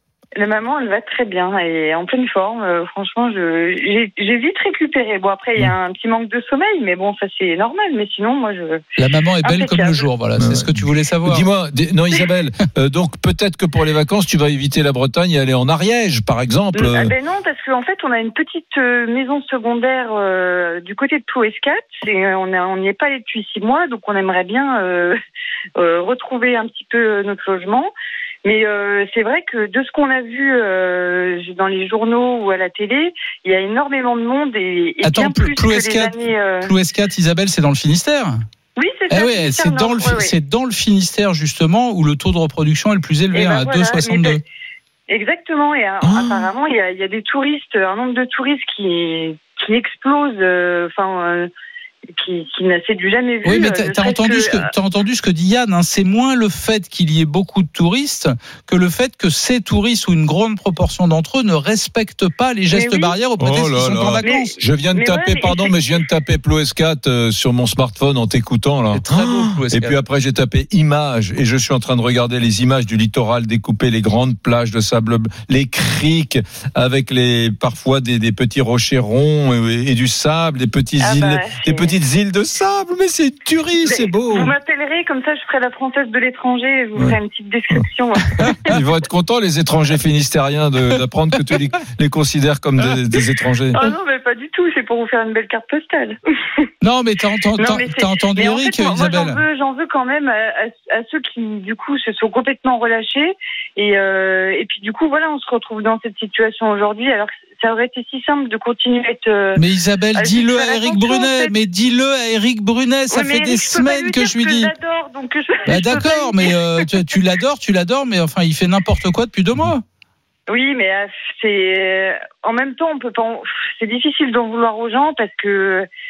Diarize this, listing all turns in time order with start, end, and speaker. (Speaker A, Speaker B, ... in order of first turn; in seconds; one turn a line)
Speaker A: 0.4-8.8
Speaker B: 9.0-11.4
Speaker A: 9.4-10.0
Speaker C: 10.4-17.1
Speaker A: 16.7-25.2
Speaker A: 25.8-27.9
Speaker A: 28.4-36.7
Speaker B: 35.0-38.4
Speaker A: 38.8-40.3
Speaker B: 39.1-44.4
Speaker A: 43.3-44.4
Speaker A: 45.1-51.5
Speaker C: 46.0-46.5
Speaker A: 52.1-54.7
Speaker B: 53.4-64.5
Speaker A: 62.7-63.1
Speaker C: 63.4-84.5
Speaker A: 64.2-65.7
Speaker B: 68.9-70.0
Speaker A: 81.0-81.9
Speaker A: 83.8-88.8
Speaker C: 88.7-93.8
Speaker A: 93.7-96.2
Speaker B: 96.8-99.4
Speaker A: 97.6-109.6
Speaker B: 109.5-114.7
Speaker A: 110.1-111.5
Speaker A: 113.1-116.5
Speaker B: 115.7-119.8
Speaker A: 120.5-125.9